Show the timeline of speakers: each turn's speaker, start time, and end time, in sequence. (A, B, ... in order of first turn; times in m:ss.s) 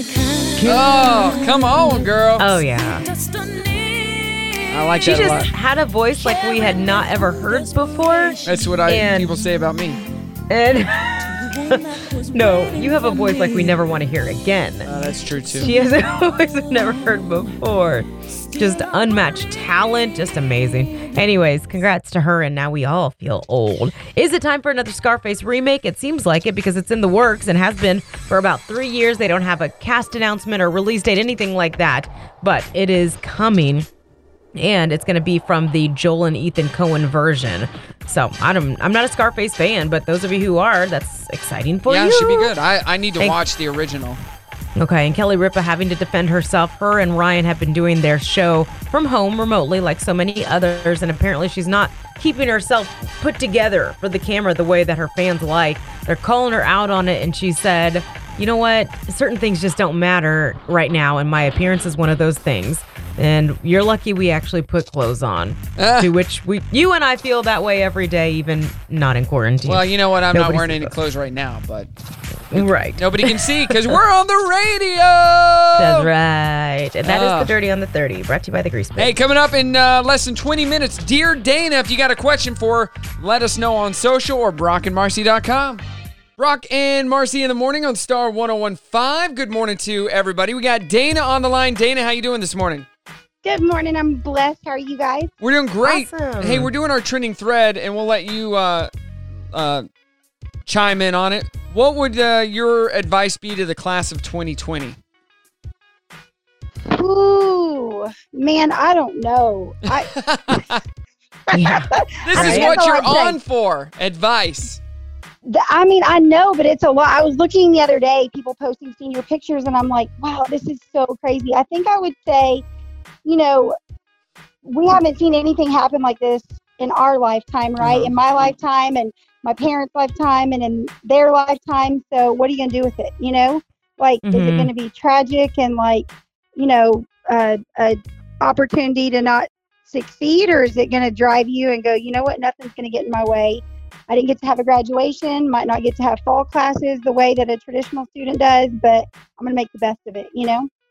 0:00.6-0:00.9 A
0:00.6-0:02.6 B
0:02.4-0:03.0 A
0:04.7-0:05.5 B
0:05.0-0:09.4 A
0:08.4-0:10.0 B
0:10.5-0:14.9 A
0:14.8-0:15.7 B
0:15.5-0:33.9 A
0:34.6-0:42.5 A
0:41.9-0:44.2 B
0:44.8-1:09.8 A
1:05.8-1:06.1 B
1:09.6-1:11.9 B
1:10.3-1:10.9 A
1:12.5-1:16.1 B
1:12.5-1:13.3 A
1:15.8-1:19.1 A
1:17.0-1:17.5 B
1:19.0-1:25.8 B
1:26.4-1:32.9 B
1:33.4-1:35.3 C
1:35.4-1:38.9 B
1:35.8-1:36.7 A
1:39.5-1:39.9 B
1:40.7-1:45.0 B
1:46.9-1:50.6 C
1:49.9-1:50.8 B
1:51.5-1:53.4 C
1:51.5-1:52.7 A
1:52.2-1:54.8 B
1:55.5-2:02.6 C
2:03.2-2:03.8 C
2:04.6-2:30.7 C
2:07.8-2:08.2 B
2:14.2-2:14.7 A